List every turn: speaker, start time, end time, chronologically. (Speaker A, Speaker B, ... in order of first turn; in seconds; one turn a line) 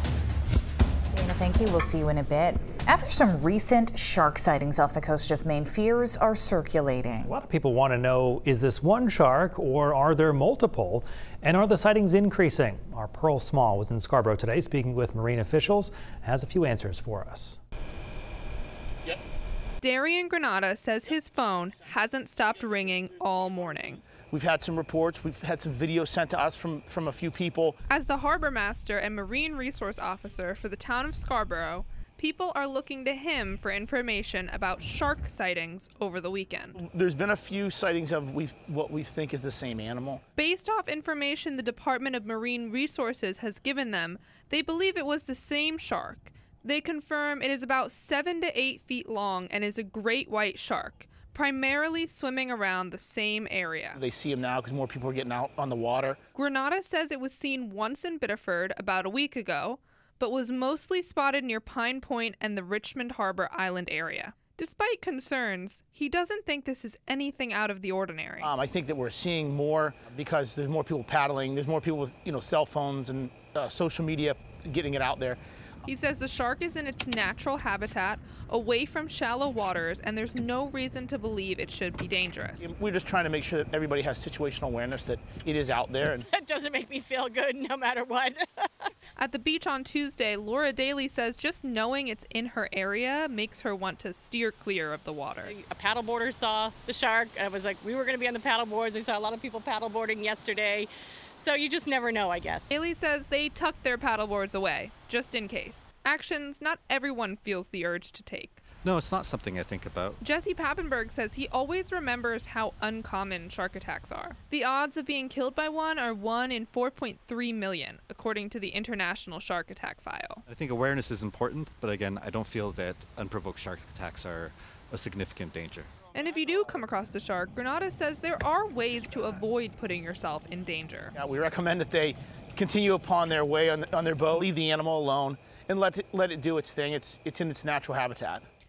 Speaker A: 1.1-7.3
Speaker B: 7.2-17.6
Speaker C: 19.8-24.0
Speaker D: 24.3-27.8
Speaker C: 27.9-36.8
Speaker D: 36.8-40.2
Speaker C: 40.4-54.0
Speaker D: 53.9-56.2
Speaker C: 56.3-68.5
Speaker D: 68.4-75.4
Speaker C: 75.9-82.7
Speaker D: 82.6-86.3
Speaker E: 86.3-88.8
Speaker C: 89.2-95.5
Speaker E: 95.4-102.7
Speaker C: 102.7-108.6
Speaker F: 108.8-110.2
Speaker C: 110.2-120.4
Speaker F: 120.5-125.9
Speaker C: 126.1-131.1
Speaker D: 131.2-138.4